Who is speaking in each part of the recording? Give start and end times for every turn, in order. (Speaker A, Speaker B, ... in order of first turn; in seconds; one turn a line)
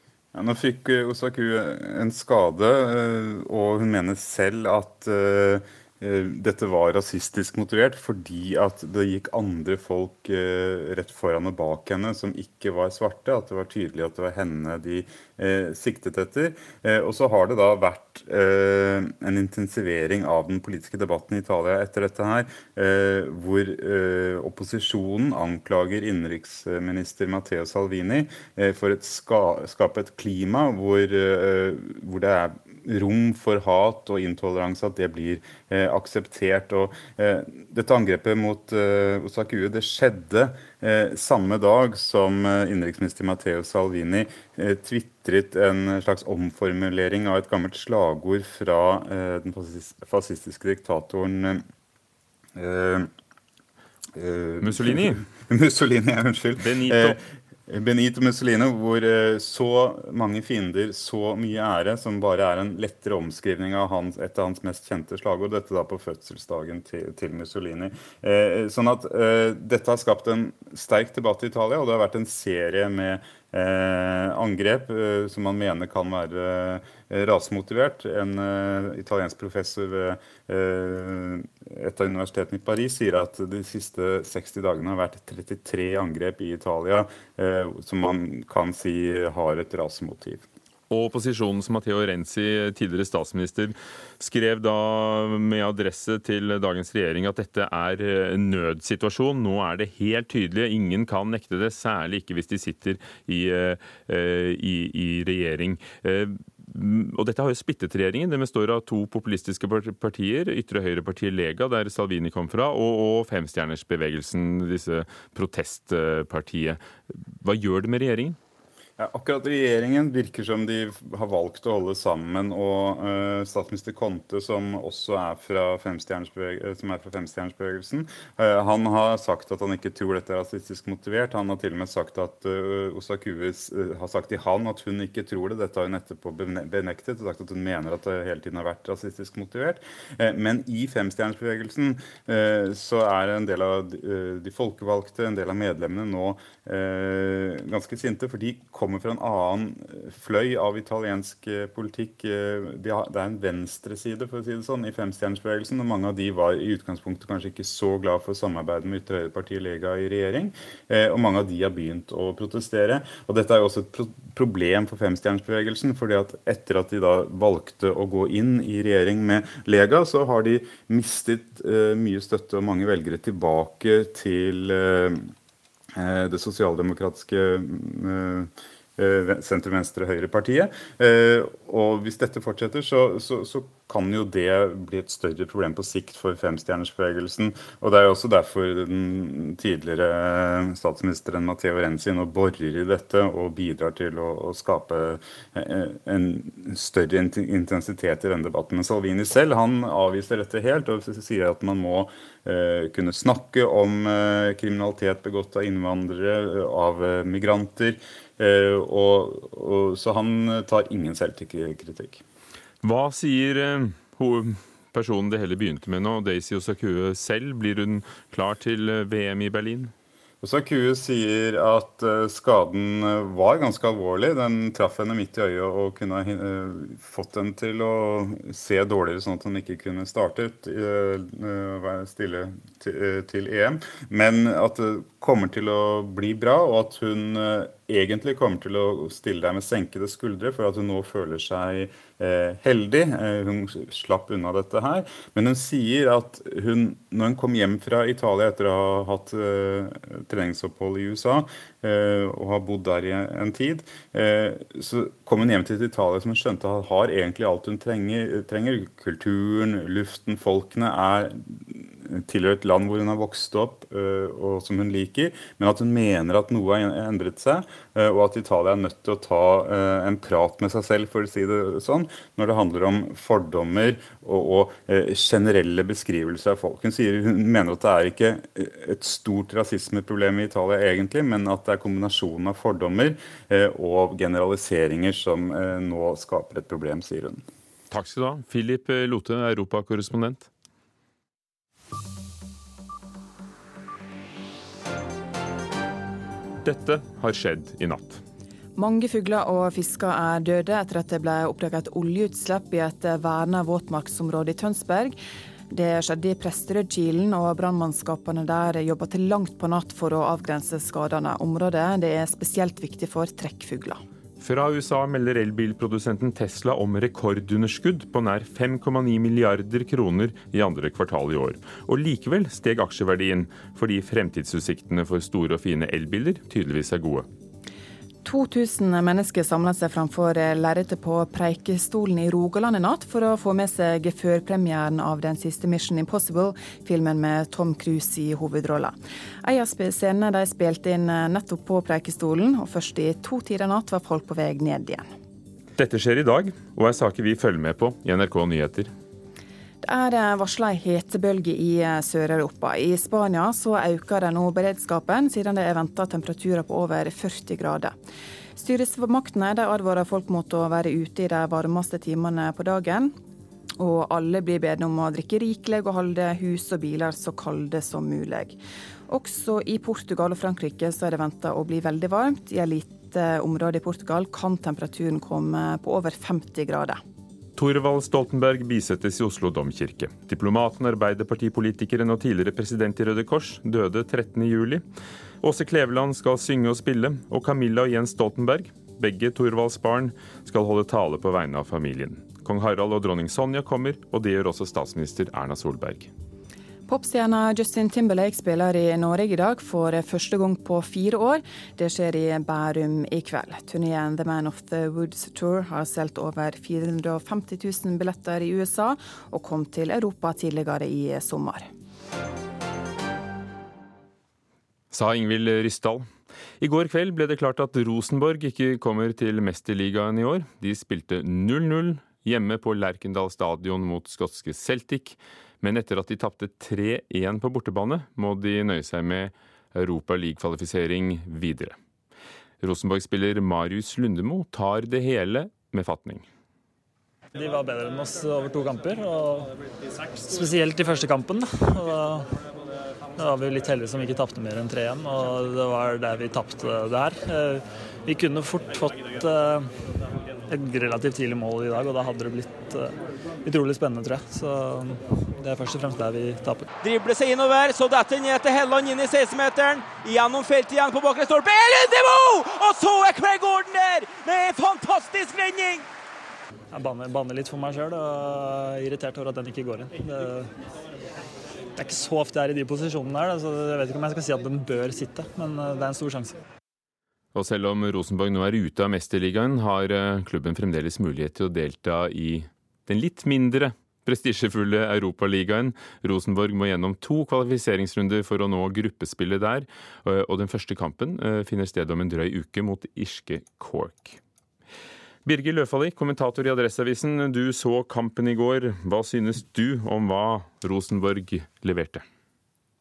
Speaker A: 0.3-51.6
Speaker A: 52.5-53.1
Speaker A: 54.1-90.4
Speaker B: 54.6-55.2
Speaker B: 56.6-57.2
Speaker B: 90.9-118.4
Speaker A: 119.0-175.3
Speaker A: 175.9-212.2
Speaker B: 212.8-219.9
Speaker A: 220.4-287.4
Speaker B: 287.9-290.5
Speaker B: 296.6-298.2
Speaker C: 298.8-305.2
Speaker C: 305.7-314.0
Speaker B: 314.4-327.2
Speaker C: 328.2-345.1
Speaker B: 345.8-348.9
Speaker C: 349.8-357.9
Speaker C: 358.6-363.1
Speaker C: 363.8-368.6
Speaker C: 369.1-377.0
Speaker B: 377.6-384.8
Speaker B: 385.4-396.1
Speaker C: 396.9-411.7
Speaker B: 414.9-416.1
Speaker B: 416.6-431.8
Speaker B: 432.6-436.2
Speaker D: 437.3-439.5
Speaker D: 440.1-442.3
Speaker D: 443.2-449.7
Speaker D: 450.5-456.7
Speaker E: 456.8-465.8
Speaker D: 466.7-470.5
Speaker D: 471.8-476.4
Speaker B: 477.3-494.2
Speaker B: 495.2-502.0